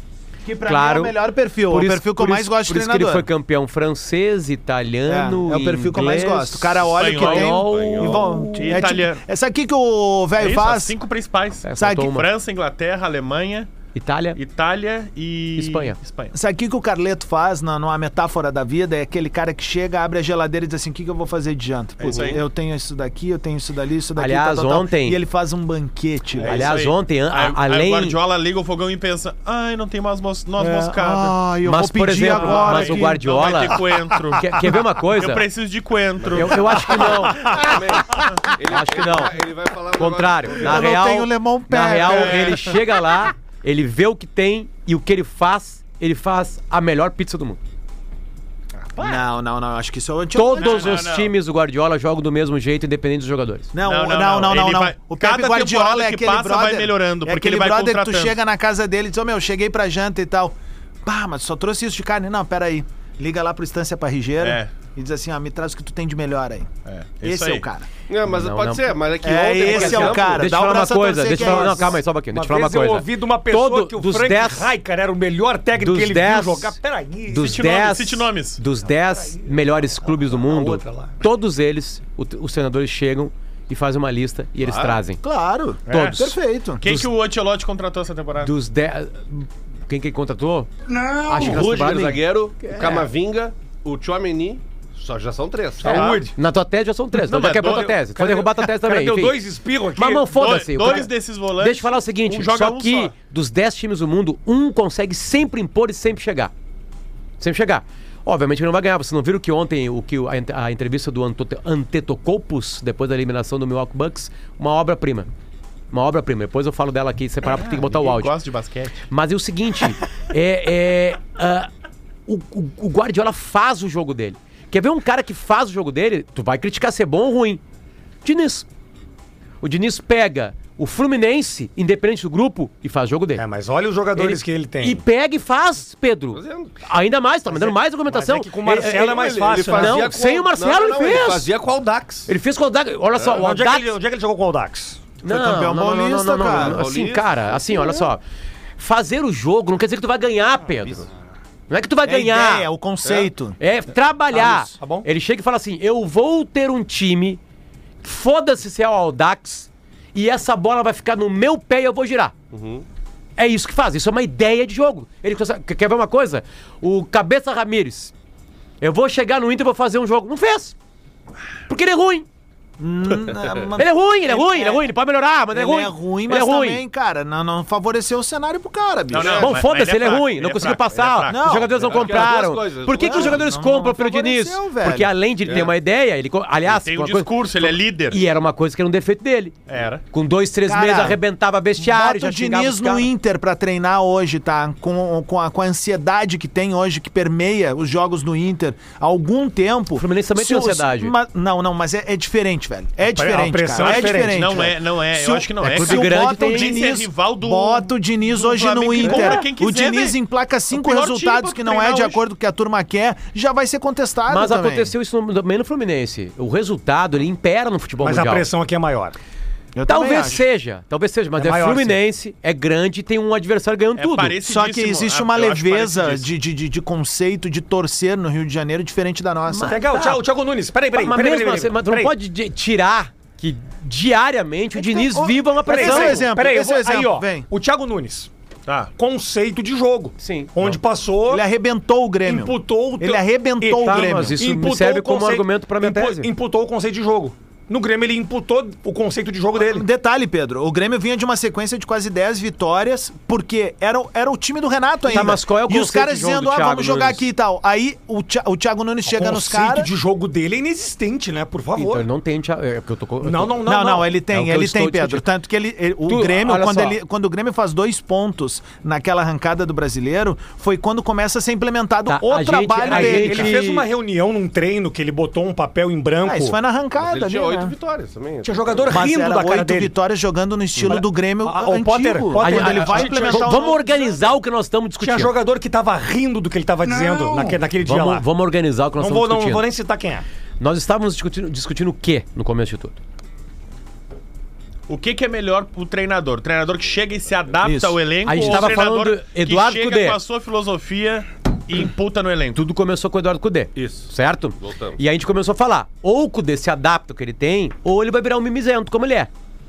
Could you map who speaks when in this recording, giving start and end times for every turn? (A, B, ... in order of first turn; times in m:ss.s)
0:00.4-0:03.3 A
0:00.6-0:01.2 B
0:01.7-0:08.9 B
0:05.1-0:11.0 A
0:06.9-0:07.6 C
0:07.5-0:08.4 D
0:08.6-0:09.2 C
0:10.4-0:13.7 C
0:11.6-0:12.3 B
0:11.8-0:12.1 A
0:13.9-0:14.4 B
0:14.4-0:16.3 C
0:15.6-0:16.0 B
0:16.3-0:26.7 A
0:22.0-0:22.4 C
0:24.2-0:25.2 B
0:26.4-0:31.4 C
0:26.4-0:28.2 B
0:30.6-0:33.5 A
0:31.6-0:35.4 B
0:32.3-0:37.7 C
0:36.2-0:36.5 D
0:36.3-0:37.7 B
0:37.5-0:40.9 D
0:38.7-0:39.4 B
0:40.0-0:47.6 B
0:40.6-0:42.8 A
0:42.0-0:42.8 C
0:48.8-0:49.2 C
0:49.0-0:51.0 A
0:50.3-0:53.7 B
0:50.6-0:51.3 C
0:53.7-1:06.7 A
0:53.8-0:58.4 C
1:04.4-1:04.7 C
1:06.9-1:07.7 C
1:07.2-1:07.9 A
1:08.1-1:10.5 D
1:08.2-1:09.0 B
1:09.2-1:12.0 A
1:09.6-1:14.7 B
1:11.3-1:17.6 E
1:15.8-1:25.2 B
1:17.4-1:18.6 C
1:19.0-1:21.2 E
1:24.6-1:25.0 D
1:25.2-1:26.8 A
1:25.9-1:28.5 C
1:25.9-1:27.1 B
1:28.4-1:30.7 B
1:30.9-1:31.4 E
1:31.2-1:33.1 B
1:31.3-1:36.2 D
1:35.8-1:36.4 E
1:35.8-1:36.3 C
1:36.3-1:39.4 B
1:37.2-1:38.0 C
1:37.6-1:40.3 E
1:40.0-1:46.5 B
1:40.1-1:43.1 C
1:47.4-1:55.3 B
1:55.9-1:58.3 B
1:57.4-1:59.0 C
1:59.1-2:01.7 B
2:02.3-2:07.6 B
2:08.2-2:08.7 B
2:09.6-2:13.4 B
2:13.4-2:15.0 E
2:14.1-2:21.5 B
2:16.3-2:16.8 D
2:17.5-2:20.2 E
2:18.9-2:22.3 D
2:22.3-2:24.0 B
2:23.2-2:23.4 D
2:23.4-2:25.1 E
2:25.2-2:28.2 B
2:25.2-2:26.9 A
2:26.4-2:28.1 D
2:28.8-2:31.1 B
2:31.7-2:32.7 B
2:32.0-2:33.6 A
2:33.6-2:37.4 B
2:34.3-2:35.1 E
2:38.0-2:42.3 B
2:42.5-2:42.8 D
2:43.4-2:48.1 B
2:48.8-2:50.8 B
2:51.7-2:52.3 B
2:52.8-2:54.8 A
2:53.8-2:56.8 B
2:55.5-2:59.5 A
2:59.1-3:01.4 C
2:59.2-3:09.6 B
3:01.3-3:02.1 A
3:01.8-3:03.4 D
3:03.0-3:05.1 A
3:05.4-3:05.7 D
3:06.7-3:08.2 C
3:09.7-3:10.0 C
3:10.1-3:13.1 B
3:10.7-3:11.2 A
3:11.8-3:34.9 A
3:20.0-3:21.2 B
3:23.1-3:24.7 E
3:23.8-3:30.2 C
3:25.6-3:26.8 B
3:29.0-3:29.4 B
3:30.7-3:32.2 C
3:34.3-3:38.5 B
3:38.0-3:39.2 E
3:39.8-3:40.4 A
3:39.9-3:44.4 B
3:41.4-3:42.0 E
3:44.0-3:46.3 C
3:44.4-3:49.8 A
3:49.5-3:50.2 B
3:49.7-3:52.1 E
3:50.9-3:56.3 B
3:54.8-3:57.5 A
3:55.7-3:58.3 E
3:59.0-4:01.4 E
4:00.2-4:00.5 B
4:01.3-4:04.4 A
4:02.2-4:09.9 E
4:03.8-4:06.3 B
4:09.6-4:19.9 A
4:15.1-4:17.2 B
4:19.0-4:22.1 E
4:21.8-4:23.7 B
4:23.2-4:24.1 E
4:23.6-4:33.6 A
4:24.3-4:25.3 B
4:26.1-4:27.0 B
4:32.1-4:33.9 B
4:32.8-4:36.6 E
4:36.2-4:37.7 A
4:37.0-4:39.1 D
4:38.4-4:39.9 E
4:38.9-4:44.3 A
4:40.8-4:43.6 E
4:42.4-4:45.3 B
4:45.0-4:48.3 E
4:47.8-4:49.7 B
4:49.0-4:50.2 E
4:50.6-4:53.0 B
4:54.9-5:02.6 C
4:57.6-4:58.0 A
4:58.2-5:00.2 B
5:02.6-5:09.3 B
5:03.8-5:05.0 D